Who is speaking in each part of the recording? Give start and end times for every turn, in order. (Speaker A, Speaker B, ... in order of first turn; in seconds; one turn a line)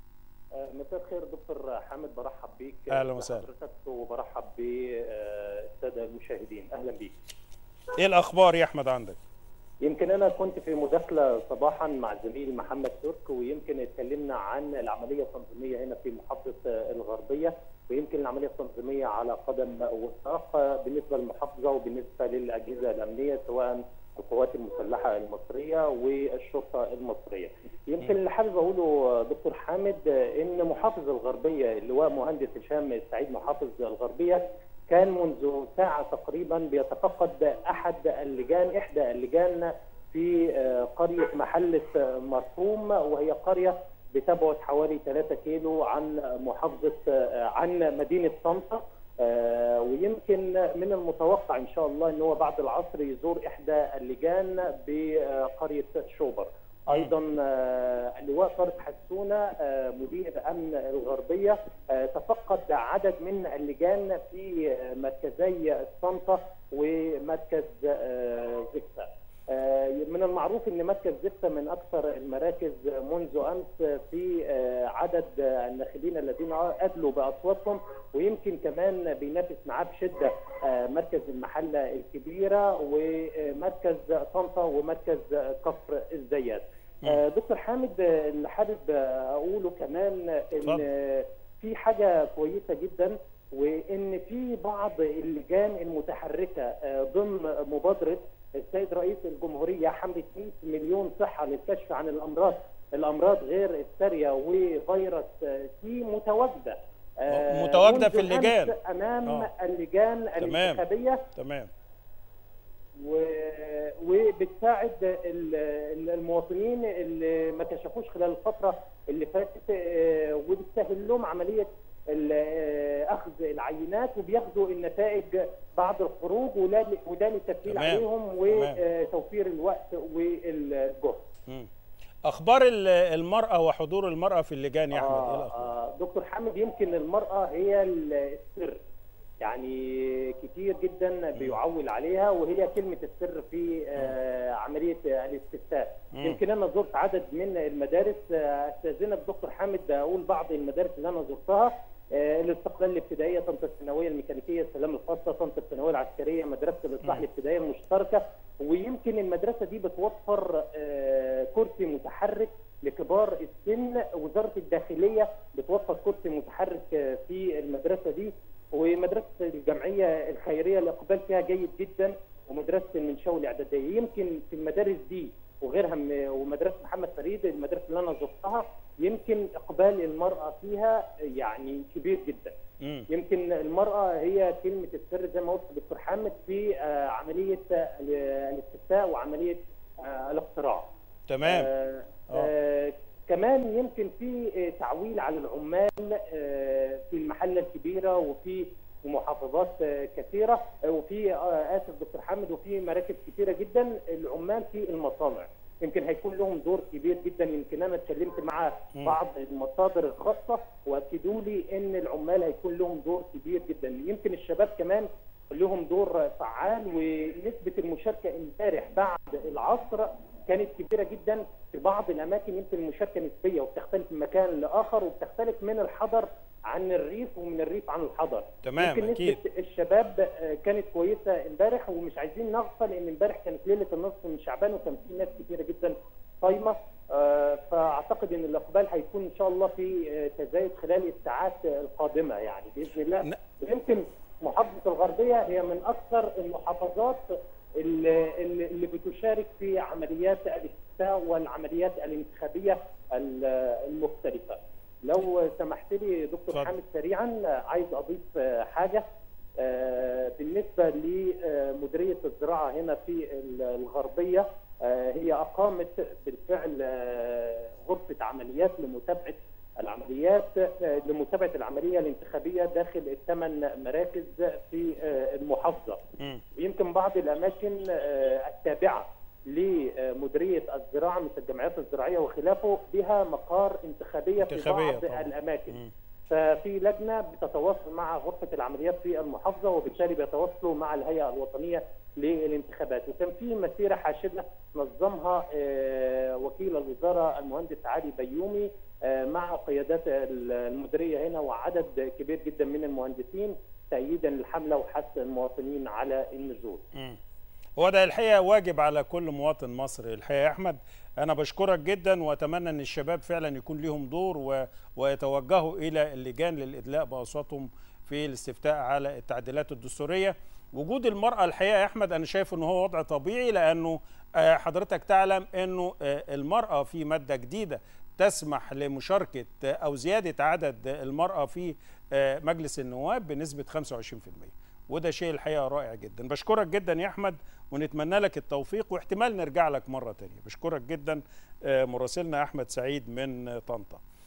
Speaker A: 0.6-7.1
Speaker B: 2.9-3.5
Speaker B: 8.0-9.2
Speaker A: 9.8-111.2
Speaker B: 56.9-57.1
Speaker B: 107.3-109.5
Speaker B: 110.4-111.7
Speaker A: 113.0-131.3
Speaker B: 127.7-128.8
Speaker B: 132.3-135.7
Speaker A: 134.9-138.8
Speaker A: 139.4-182.5
Speaker B: 141.3-141.6
Speaker B: 146.1-146.4
Speaker B: 182.8-183.1
Speaker A: 183.1-190.9
Speaker B: 191.3-191.7
Speaker A: 191.4-259.0
Speaker B: 228.6-229.4
Speaker B: 256.5-256.8
Speaker A: 259.6-276.0
Speaker A: 276.6-285.8
Speaker B: 284.4-285.9
Speaker A: 286.3-306.8
Speaker B: 307.8-344.0